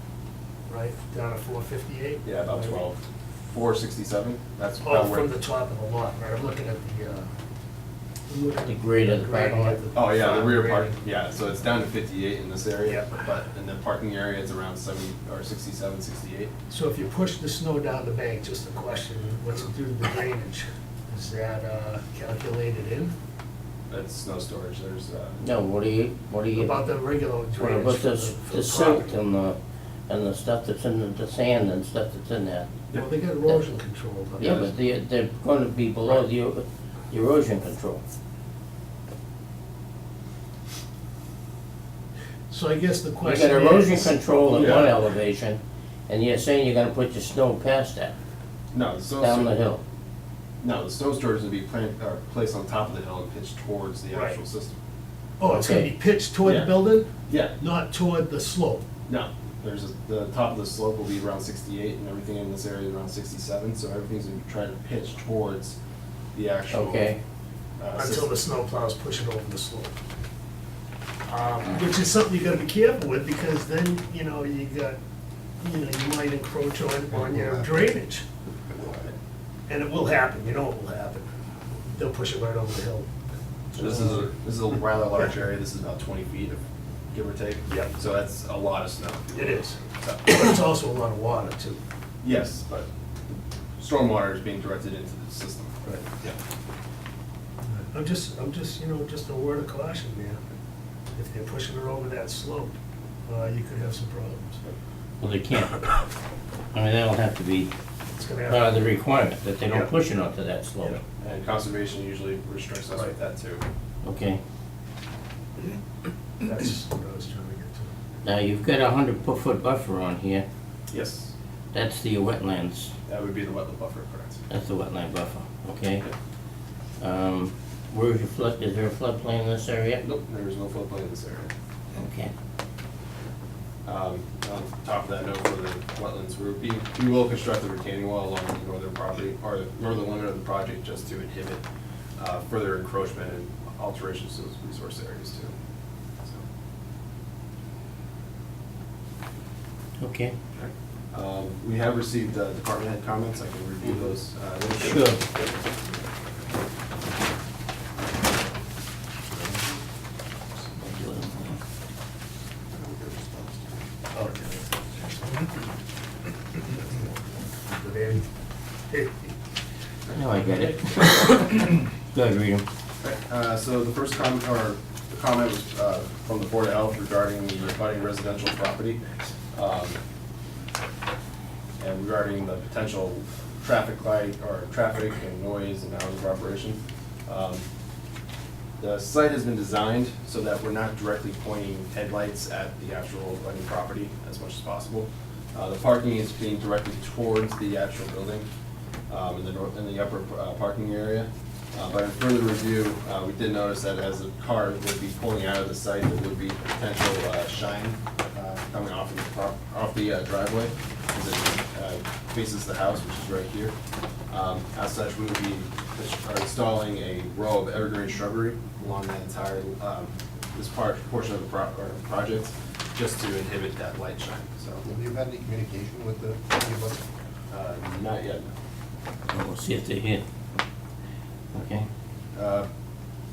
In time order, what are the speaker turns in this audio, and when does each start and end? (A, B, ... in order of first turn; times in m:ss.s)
0:00.7-0:02.8 A
0:02.2-0:05.3 B
0:04.8-0:07.3 A
0:08.3-0:10.9 A
0:08.6-0:09.8 C
0:09.9-0:16.5 B
0:16.7-0:23.1 A
0:23.9-0:25.4 B
0:25.4-0:26.8 C
0:26.5-0:29.1 A
0:27.6-0:29.6 C
0:30.1-0:32.8 C
0:32.9-0:34.5 A
0:34.4-0:34.7 B
0:34.4-0:38.0 C
0:42.5-0:44.7 A
0:43.2-0:48.2 C
0:44.6-0:44.9 B
0:48.7-0:49.6 B
0:49.2-0:49.8 C
0:50.6-0:54.8 B
0:54.1-0:54.4 A
0:55.4-0:58.8 A
0:55.4-0:55.9 C
0:56.4-0:57.6 B
0:59.1-1:05.8 B
1:06.3-1:07.2 B
1:06.7-1:07.2 C
1:07.8-1:08.4 B
1:07.9-1:10.0 A
1:11.3-1:15.0 A
1:15.6-1:18.2 A
1:17.2-1:17.6 D
1:19.7-1:21.3 A
1:21.9-1:23.1 A
1:23.7-1:24.2 A
1:23.8-1:30.4 B
1:29.3-1:31.8 A
1:32.2-1:32.9 B
1:33.8-1:36.4 B
1:37.7-1:40.4 A
1:41.2-1:42.7 A
1:43.3-1:44.6 A
1:45.2-1:45.9 C
1:46.7-1:47.7 C
1:48.1-1:48.8 A
1:48.5-1:51.0 C
1:51.0-1:53.6 B
1:54.0-1:54.4 C
1:56.4-1:57.9 A
1:58.2-2:00.4 C
2:00.9-2:01.3 B
2:01.7-2:02.9 C
2:03.1-2:04.4 B
2:04.5-2:06.0 C
2:07.0-2:10.0 C
2:10.0-2:11.5 B
2:11.9-2:12.3 C
2:13.8-2:21.6 B
2:22.2-2:25.5 B
2:30.0-2:30.4 C
2:30.5-2:35.2 B
2:34.8-2:35.2 C
2:40.7-2:41.6 C
2:42.8-2:43.5 B
2:44.1-2:45.5 A
2:47.6-2:48.3 A
2:48.9-2:49.3 A
2:50.1-2:52.6 C
2:53.0-3:00.0 B
3:01.8-3:07.6 B
3:08.8-3:18.4 B
3:19.1-3:33.7 B
3:34.3-3:44.8 B
3:44.8-3:47.0 D
3:47.5-3:48.5 B
3:49.3-3:50.2 C
3:51.5-3:51.8 C
3:52.3-3:52.7 B